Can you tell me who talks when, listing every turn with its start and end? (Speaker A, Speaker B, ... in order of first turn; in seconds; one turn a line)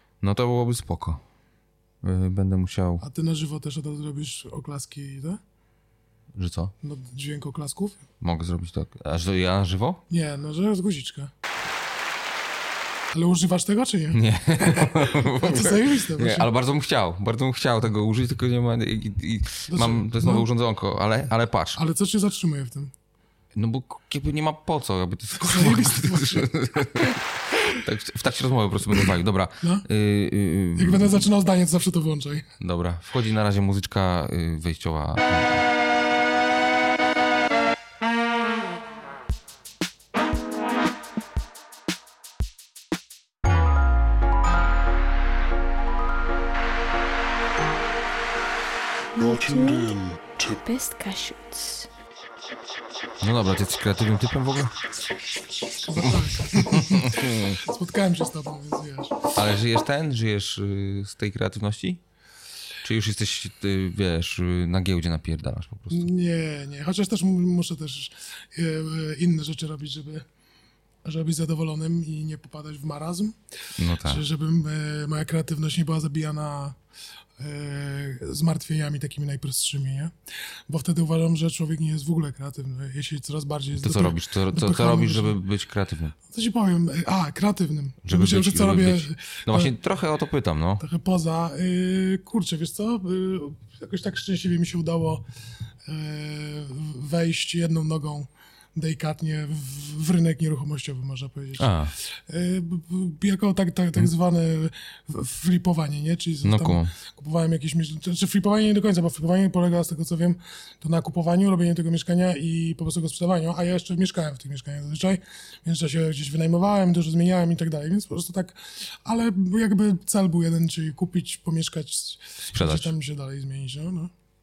Speaker A: 0.2-1.2
Speaker A: 2.0-3.0
Speaker B: 3.0-5.4
Speaker A: 6.3-6.7
Speaker B: 6.8-8.0
Speaker A: 8.2-10.0
Speaker B: 10.1-11.3
Speaker B: 13.1-16.5
Speaker A: 14.1-21.8
Speaker B: 19.7-20.4
Speaker B: 21.8-22.9
Speaker A: 23.5-27.2
Speaker B: 25.4-27.1
Speaker A: 27.7-31.3
Speaker B: 30.8-32.5
Speaker A: 32.6-35.7
Speaker C: 49.1-51.9
Speaker A: 53.2-54.9
Speaker B: 55.8-59.3
Speaker A: 56.0-57.6
Speaker A: 59.4-62.0
Speaker A: 62.8-66.1
Speaker B: 65.9-70.3
Speaker B: 71.0-73.4
Speaker A: 73.8-74.2
Speaker B: 74.0-76.8
Speaker B: 77.4-80.1
Speaker B: 80.7-85.4
Speaker A: 83.8-86.2
Speaker B: 86.3-89.7
Speaker A: 88.0-90.8
Speaker B: 90.8-95.2
Speaker B: 95.9-124.1
Speaker A: 101.6-101.9
Speaker A: 106.4-106.9
Speaker A: 122.5-122.9